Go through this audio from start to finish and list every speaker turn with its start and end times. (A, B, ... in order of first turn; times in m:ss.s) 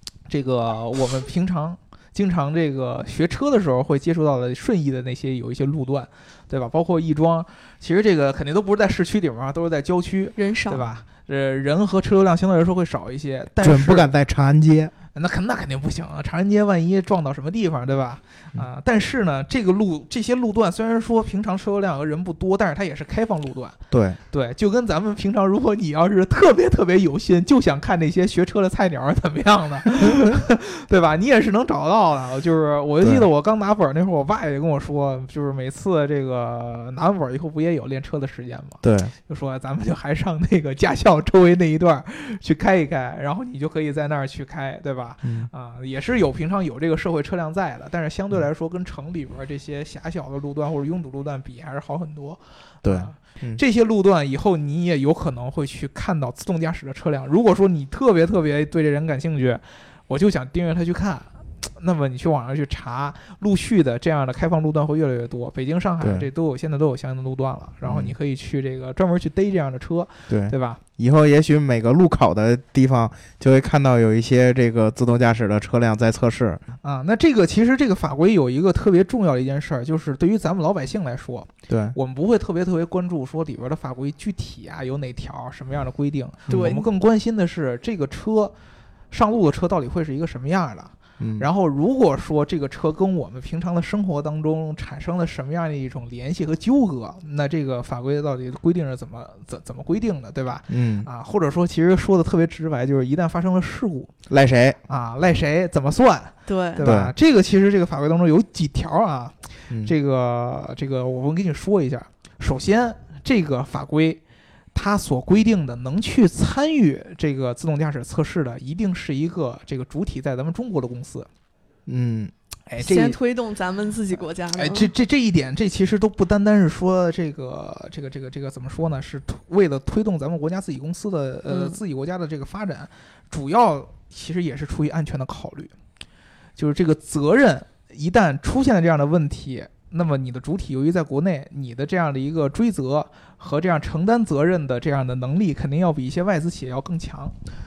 0:00.3-0:14.1 A
0:10.4-0:10.8 B
0:13.6-0:14.9 C
0:15.1-0:23.8 A
0:23.9-0:24.2 C
0:24.3-1:10.8 A
0:38.8-0:39.1 C
0:45.2-0:45.5 C
0:52.8-0:53.6 C
1:06.0-1:06.3 C
1:07.8-1:08.1 C
1:10.3-1:16.6 C
1:16.8-1:28.5 A
1:21.7-1:22.0 C
1:26.5-1:26.9 B
1:29.1-1:44.1 A
1:31.2-1:31.5 C
1:40.7-1:41.1 C
1:44.3-1:44.8 C
1:44.9-1:54.2 A
1:46.4-1:46.8 B
1:46.8-1:47.1 C
1:54.7-2:01.3 A
2:01.9-2:02.3 C
2:02.7-2:03.2 A
2:02.8-2:04.9 B
2:04.6-2:15.7 A
2:11.5-2:11.8 B
2:16.6-2:27.3 A